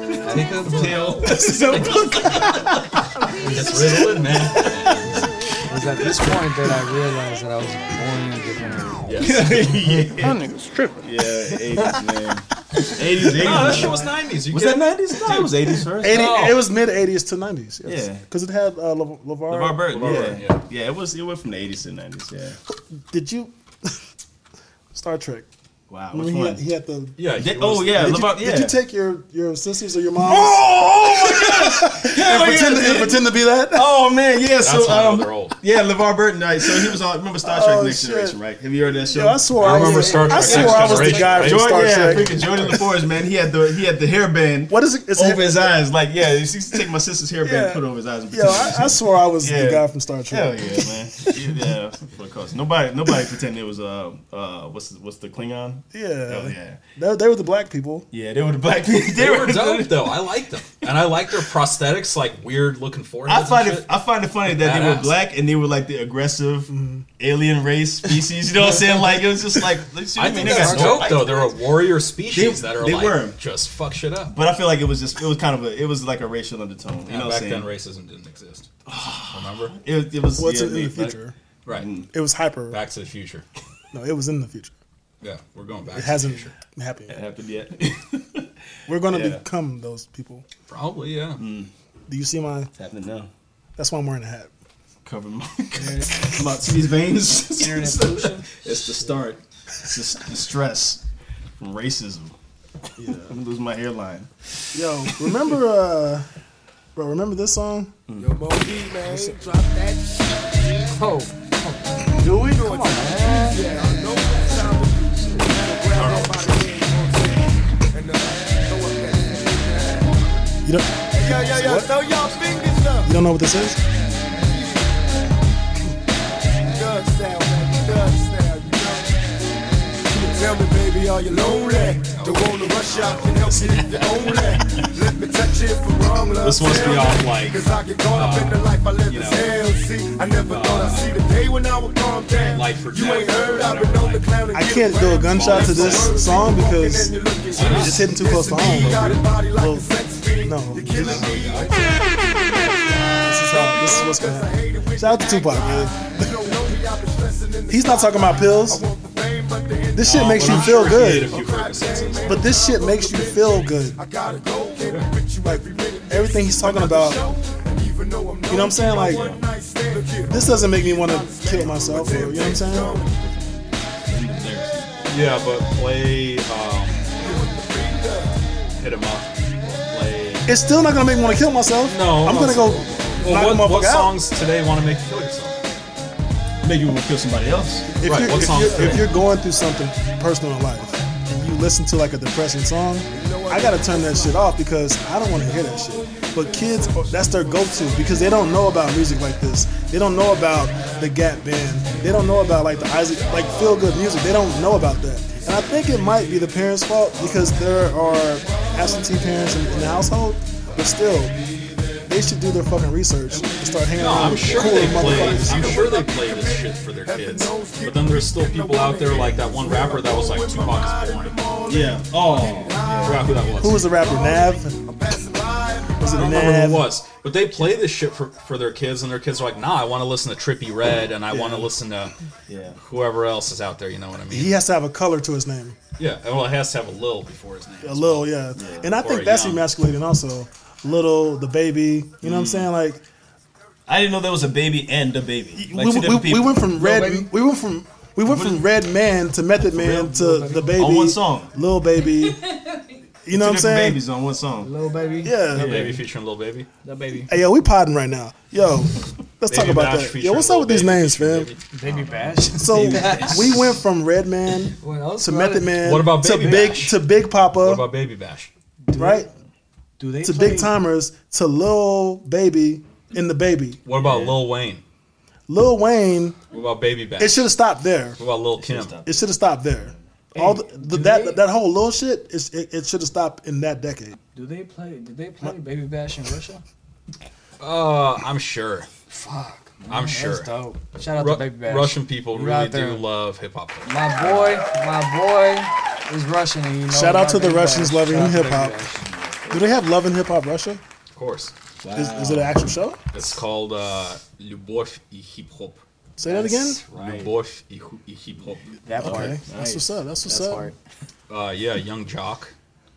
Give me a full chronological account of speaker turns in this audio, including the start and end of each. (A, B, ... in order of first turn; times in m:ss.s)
0:00.1-0:03.0 A
0:00.2-0:02.7 B
0:00.2-0:00.6 C
0:01.3-0:01.9 D
0:03.4-0:04.0 C
0:03.4-0:05.3 B
0:03.6-0:05.3 A
0:05.6-0:09.6 C
0:09.0-0:09.4 B
0:09.2-0:10.4 A
0:10.2-0:11.0 E
0:11.0-0:16.5 A
0:13.2-0:16.6 B
0:13.6-0:14.0 C
0:16.0-0:19.8 D
0:17.8-0:18.2 A
0:19.5-0:22.6 A
0:19.9-0:20.6 B
0:22.9-0:23.9 D
0:24.9-0:25.5 D
0:25.9-0:26.6 A
0:26.1-0:27.2 D
0:27.2-0:28.2 B
0:27.3-0:28.8 A
0:27.9-0:33.9 D
0:30.2-0:39.5 A
0:34.6-0:35.6 B
0:37.4-0:38.4 D
0:39.0-0:42.7 D
0:39.6-0:42.2 B
0:39.6-0:42.8 C
0:40.4-0:56.8 A
0:44.7-0:45.7 D
0:47.4-0:51.5 D
0:55.9-0:58.1 D
0:58.1-1:00.9 A
0:59.1-1:03.9 B
1:03.2-1:11.5 A
1:04.4-1:05.1 B
1:06.7-1:07.0 D
1:10.2-1:14.3 B
1:10.4-1:11.4 C
1:12.3-1:13.4 A
1:14.3-1:17.7 A
1:17.0-1:19.8 B
1:18.8-1:21.2 A
1:20.4-1:21.3 D
1:21.7-1:22.1 A
1:22.1-1:22.8 D
1:22.7-1:23.4 B
1:23.9-1:24.7 D
1:25.2-1:26.6 B
1:25.9-1:27.2 D
1:27.1-1:28.5 A
1:28.9-1:30.4 D
1:29.1-1:29.4 B
1:30.7-1:31.4 B
1:31.4-1:31.7 A
1:32.1-1:32.7 D
1:32.8-1:33.3 A
1:33.8-1:34.5 D
1:35.0-1:41.0 A
1:35.8-1:36.2 C
1:37.6-1:38.5 C
1:41.6-1:42.4 A
1:43.0-1:43.3 D
1:43.0-1:44.3 A
1:44.7-1:46.3 D
1:46.9-1:48.0 D
1:48.1-1:48.4 A
1:48.2-1:50.9 E
1:51.0-1:53.7 C
1:52.2-2:00.2 E
1:55.9-1:56.7 B
2:00.6-2:01.9 D
2:01.1-2:03.1 E
2:03.0-2:03.8 D
2:04.3-2:05.0 E
2:06.6-2:09.2 E
2:10.0-2:53.1 E
2:12.1-2:14.9 B
2:16.4-2:19.5 B
2:20.4-2:21.2 B
2:22.4-2:24.3 B
2:24.5-2:31.4 D
2:25.2-2:26.6 B
2:27.5-2:29.4 B
2:30.9-2:33.0 B
2:32.8-2:36.5 D
2:37.7-2:38.9 D
2:39.9-2:41.4 D
2:40.0-2:42.5 B
2:42.2-2:44.0 D
2:45.4-2:47.4 D
2:48.5-2:49.3 D
2:49.0-2:49.4 A
2:50.3-2:53.0 D
2:52.7-2:55.3 A
2:55.1-2:57.3 B
2:57.2-2:58.4 E
2:58.7-3:00.5 B
3:00.4-3:04.1 D
3:01.8-3:05.6 B
3:06.6-3:07.9 A
3:08.0-3:31.4 D
3:08.0-3:09.1 B
3:13.1-3:14.2 E
3:32.0-3:35.8 D
3:33.9-3:41.4 B
3:35.0-3:43.2 E
3:41.7-3:43.5 A
3:43.0-3:43.9 B
3:43.6-3:44.8 D
3:44.0-3:46.4 E
3:46.0-3:46.9 D
3:46.0-3:52.1 B
3:51.3-3:51.7 D
3:52.5-3:52.8 A
3:52.8-3:54.6 B
3:54.3-3:55.8 D
3:56.0-3:58.3 B
3:57.8-4:03.0 D
3:58.5-3:59.0 A
3:59.0-3:59.7 B
4:02.2-4:02.7 A
4:03.9-4:06.7 A
4:05.6-4:12.5 D
4:06.7-4:07.3 C
4:08.2-4:08.6 A
4:09.7-4:11.5 A
4:10.1-4:10.7 C
4:13.2-4:14.0 D
4:13.3-4:14.7 A
4:14.6-4:15.9 C
4:15.2-4:16.0 D
4:15.5-4:16.7 B
4:15.5-4:16.0 A
4:16.8-4:17.3 C
4:17.3-4:21.5 D
4:19.4-4:21.6 B
4:21.7-4:23.6 C
4:21.8-4:23.4 A
4:22.6-4:27.8 D
4:24.8-4:26.7 C
4:25.8-4:27.0 B
4:27.5-4:28.5 B
4:28.8-4:29.3 C
4:28.9-4:29.3 D
4:30.0-4:30.7 C
4:30.2-4:33.8 D
4:33.8-4:34.8 B
4:33.9-4:34.4 A
4:35.5-4:36.4 D
4:36.5-4:37.5 B
4:37.2-4:38.2 D
4:38.2-4:39.0 B
4:38.6-4:39.3 A
4:39.0-4:44.2 D
4:40.3-4:41.4 C
4:44.3-4:46.6 C
4:47.6-4:48.9 B
4:49.1-4:53.0 C
4:49.9-4:54.6 B
4:53.8-4:59.6 C
4:56.9-4:58.8 D
4:59.2-4:59.5 A
4:59.5-5:00.8 D
5:01.1-5:01.5 B
5:01.8-5:02.6 A
5:01.9-5:03.0 D
5:03.1-5:05.8 B
5:06.2-5:06.8 D
5:06.2-5:07.3 C
5:06.9-5:08.8 B
5:08.8-5:09.5 C
5:09.0-5:09.9 A
5:09.0-5:10.7 D
5:10.2-5:10.8 C
5:11.3-5:12.5 B